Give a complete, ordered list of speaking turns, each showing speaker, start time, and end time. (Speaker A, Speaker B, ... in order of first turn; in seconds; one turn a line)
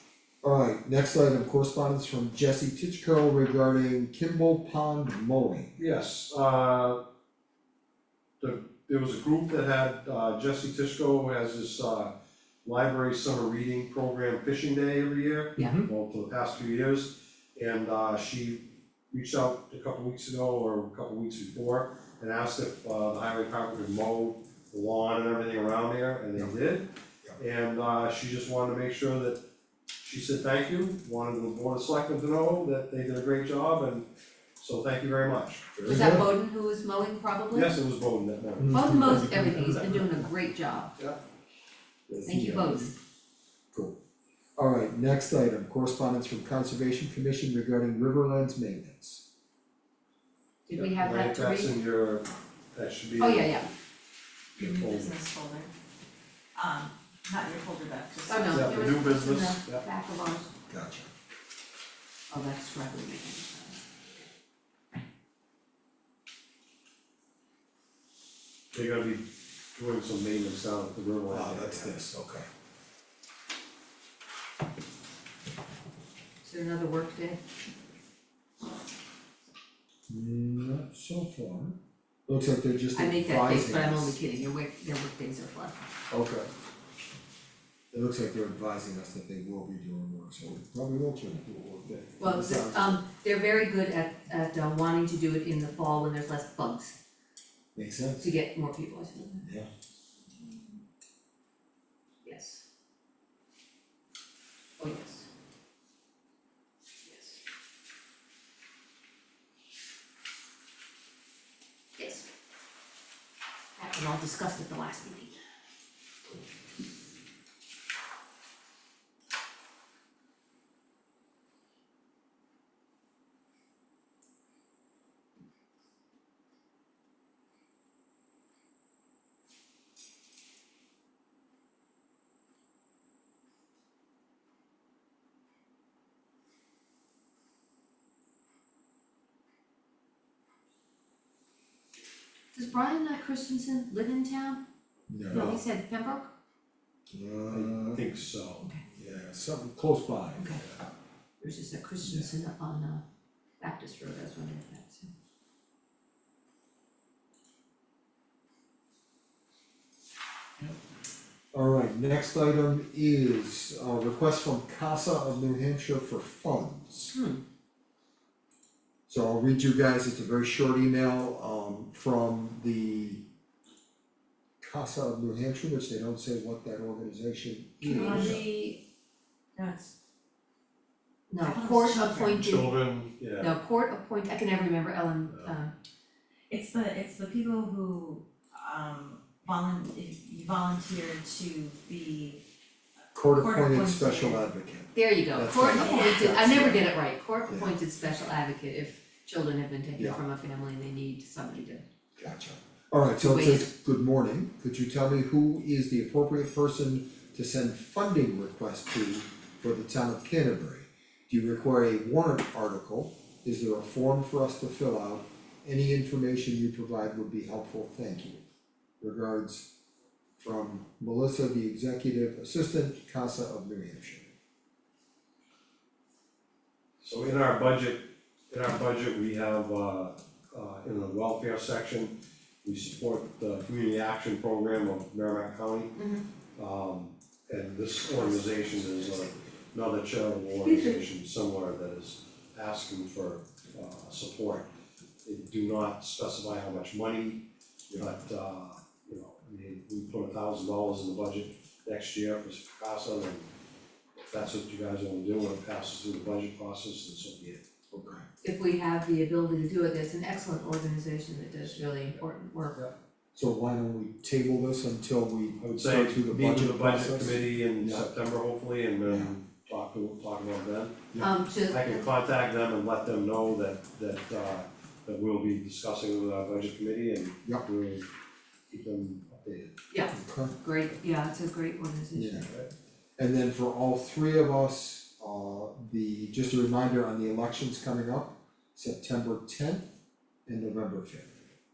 Speaker A: 0.4-5.8
Speaker B: 5.8-7.0
Speaker B: 8.4-12.1
Speaker B: 12.7-18.6
Speaker C: 15.6-15.8
Speaker A: 15.6-15.9
Speaker B: 19.1-29.4
Speaker B: 30.0-34.1
Speaker B: 34.6-35.7
Speaker A: 35.8-36.3
Speaker C: 35.9-37.8
Speaker B: 37.5-39.4
Speaker A: 38.6-39.9
Speaker C: 38.7-40.9
Speaker A: 42.1-42.9
Speaker C: 42.3-42.9
Speaker A: 44.6-49.2
Speaker C: 50.7-51.8
Speaker B: 50.7-53.6
Speaker C: 53.2-53.7
Speaker B: 54.6-55.2
Speaker D: 54.6-55.7
Speaker D: 56.5-58.9
Speaker C: 58.3-60.5
Speaker B: 58.5-59.8
Speaker A: 60.7-61.1
Speaker C: 62.3-63.8
Speaker B: 68.7-71.9
Speaker A: 71.3-72.5
Speaker C: 76.4-77.4
Speaker A: 80.1-84.2
Speaker C: 83.0-85.9
Speaker A: 86.1-86.5
Speaker A: 87.9-93.0
Speaker C: 92.2-97.0
Speaker A: 97.8-98.3
Speaker C: 98.2-99.5
Speaker A: 99.4-99.7
Speaker C: 102.2-102.6
Speaker C: 104.8-105.3
Speaker C: 107.1-107.4
Speaker C: 112.0-112.3
Speaker C: 113.8-115.4
Speaker C: 142.5-144.6
Speaker A: 145.1-145.6
Speaker C: 145.3-146.3
Speaker A: 147.1-148.0
Speaker B: 147.5-148.7
Speaker A: 149.0-150.7
Speaker C: 150.4-150.6
Speaker C: 151.4-153.0
Speaker A: 152.0-152.3
Speaker C: 153.6-155.1
Speaker A: 161.5-167.1
Speaker C: 167.1-167.4
Speaker A: 169.1-173.2
Speaker A: 174.6-178.4
Speaker D: 177.8-178.8
Speaker C: 177.9-178.4
Speaker D: 179.6-179.9
Speaker C: 181.3-182.7
Speaker D: 181.4-182.6
Speaker B: 182.4-183.6
Speaker C: 183.4-185.7
Speaker D: 186.5-192.4
Speaker A: 193.1-196.9
Speaker D: 193.3-194.4
Speaker C: 194.9-201.8
Speaker D: 195.7-196.2
Speaker A: 197.5-197.8
Speaker A: 202.2-218.4
Speaker C: 203.2-203.7
Speaker A: 219.0-219.7
Speaker A: 220.4-224.3
Speaker B: 227.0-235.9
Speaker C: 236.0-236.2
Speaker B: 236.6-244.7
Speaker A: 238.1-239.5
Speaker C: 240.6-241.0
Speaker B: 245.2-247.4
Speaker B: 248.0-253.5
Speaker B: 254.2-257.6
Speaker A: 257.9-258.3
Speaker C: 258.4-262.8
Speaker A: 263.4-268.1
Speaker B: 265.6-271.1
Speaker A: 269.1-269.3
Speaker C: 271.2-272.1
Speaker B: 271.7-278.1
Speaker B: 278.7-279.8
Speaker C: 279.9-282.5
Speaker A: 280.1-280.6
Speaker A: 282.1-282.5
Speaker B: 282.4-282.7
Speaker A: 283.2-289.9
Speaker A: 290.5-291.3